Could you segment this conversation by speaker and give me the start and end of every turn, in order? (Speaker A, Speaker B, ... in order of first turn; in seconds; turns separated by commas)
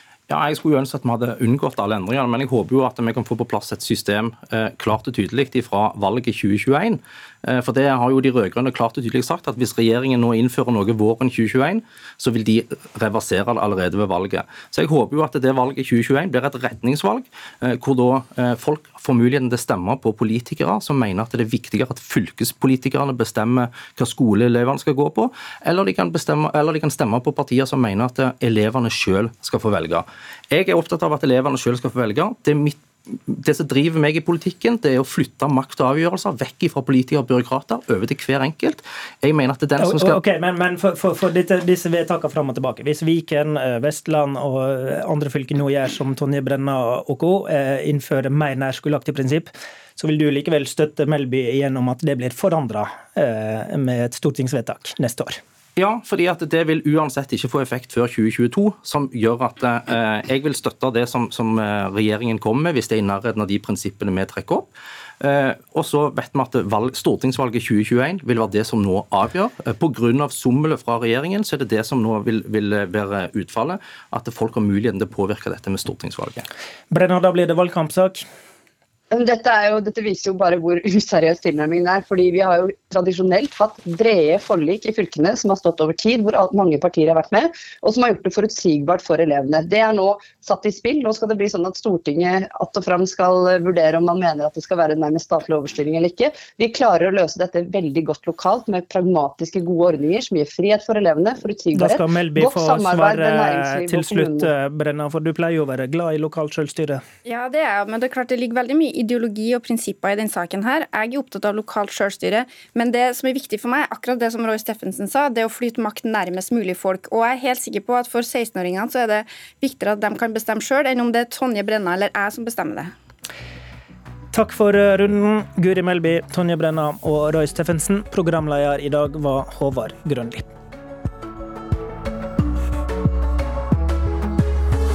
Speaker A: 0.3-40.2, Speaker B: 39.8-55.4, Speaker A: 55.8-76.5, Speaker B: 76.9-78.2, Speaker C: 79.1-104.5, Speaker B: 101.7-107.0, Speaker D: 107.2-122.9, Speaker B: 124.3-130.5